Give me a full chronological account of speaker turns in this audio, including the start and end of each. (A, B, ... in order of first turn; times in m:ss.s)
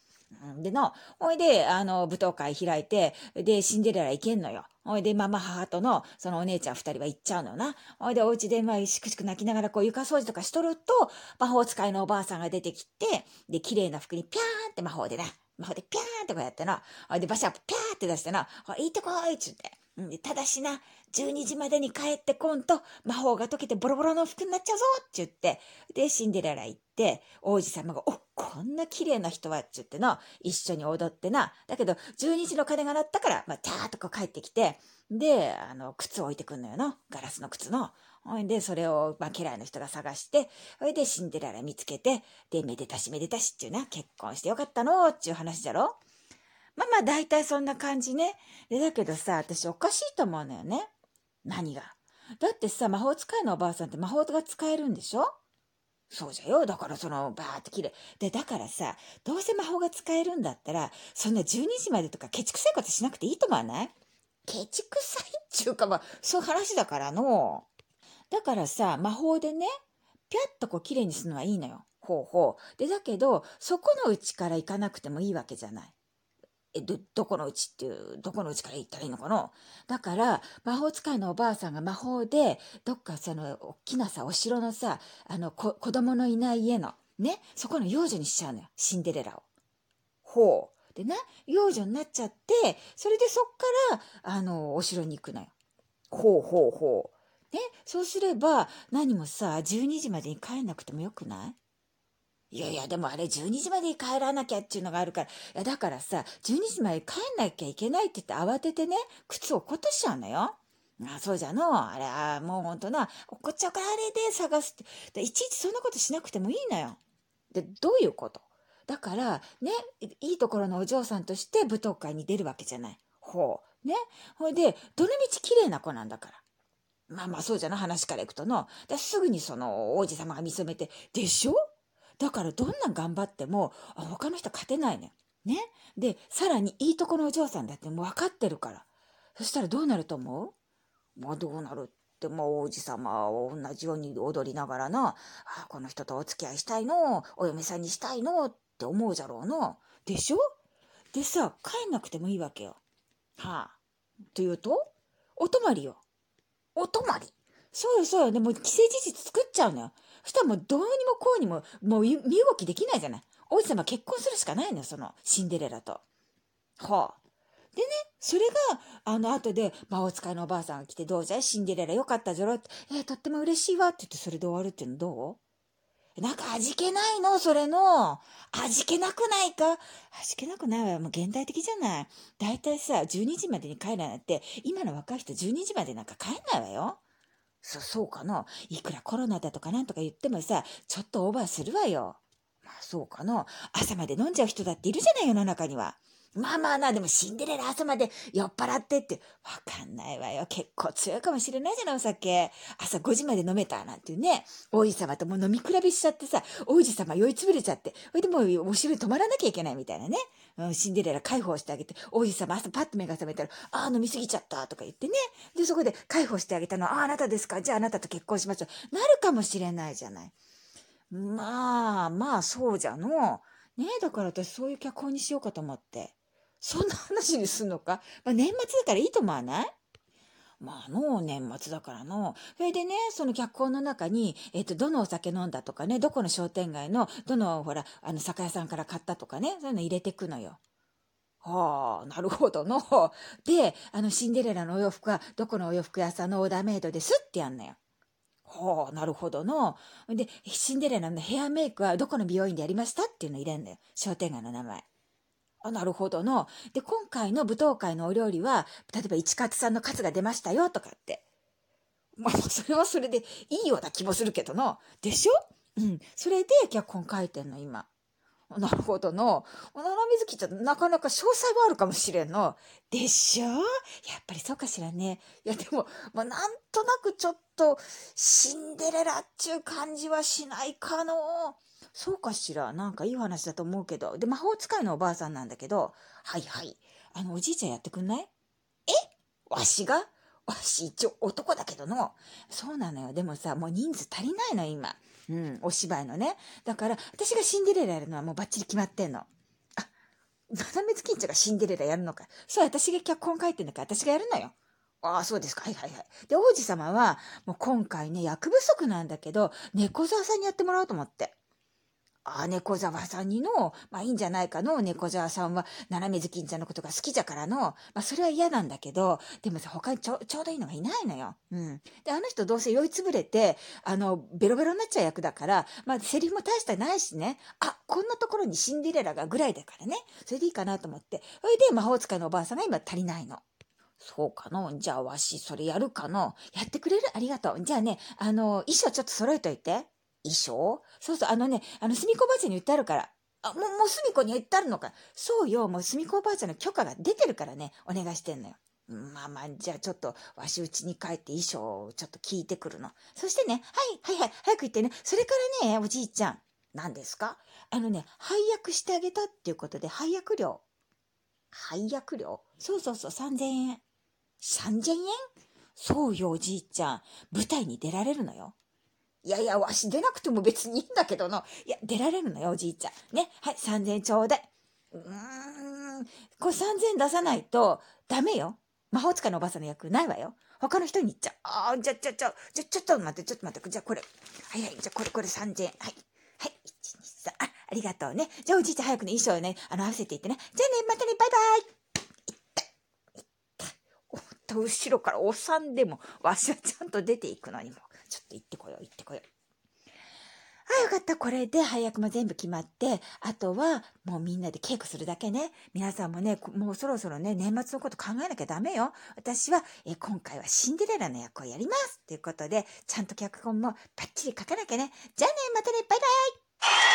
0:00.4-0:46.0 A
0:46.8-0:50.9 A
0:51.4-0:55.3 A
0:56.1-1:03.9 A
1:04.5-1:07.7 A
1:08.3-1:09.7 A
1:10.3-1:15.9 A
1:16.7-1:29.5 A
1:30.2-1:35.5 A
1:36.1-1:41.6 A
1:42.5-1:57.0 A
1:57.5-2:06.4 A
2:07.1-2:11.6 A
2:12.2-2:18.9 A
2:19.4-2:20.5 A
2:21.2-2:30.4 A
2:31.1-2:32.8 A
2:33.4-2:33.8 A
2:34.3-2:36.0 A
2:36.8-2:46.0 A
2:46.8-2:47.2 A
2:47.8-2:55.4 A
2:56.2-3:07.0 A
3:07.6-3:40.3 A
3:41.1-3:49.7 A
3:50.6-4:00.6 A
4:01.4-4:07.8 A
4:08.5-4:14.8 A
4:15.6-4:21.2 A
4:22.2-4:27.9 A
4:28.5-4:48.3 A
4:48.9-4:59.9 A
5:00.5-5:11.4 A
5:12.2-5:33.4 A
5:34.0-6:00.6 A
6:01.5-6:03.8 A
6:04.4-6:05.2 A
6:05.8-6:08.6 A
6:09.2-6:31.7 A
6:32.3-6:32.6 A
6:33.6-6:39.2 A
6:40.7-6:56.4 A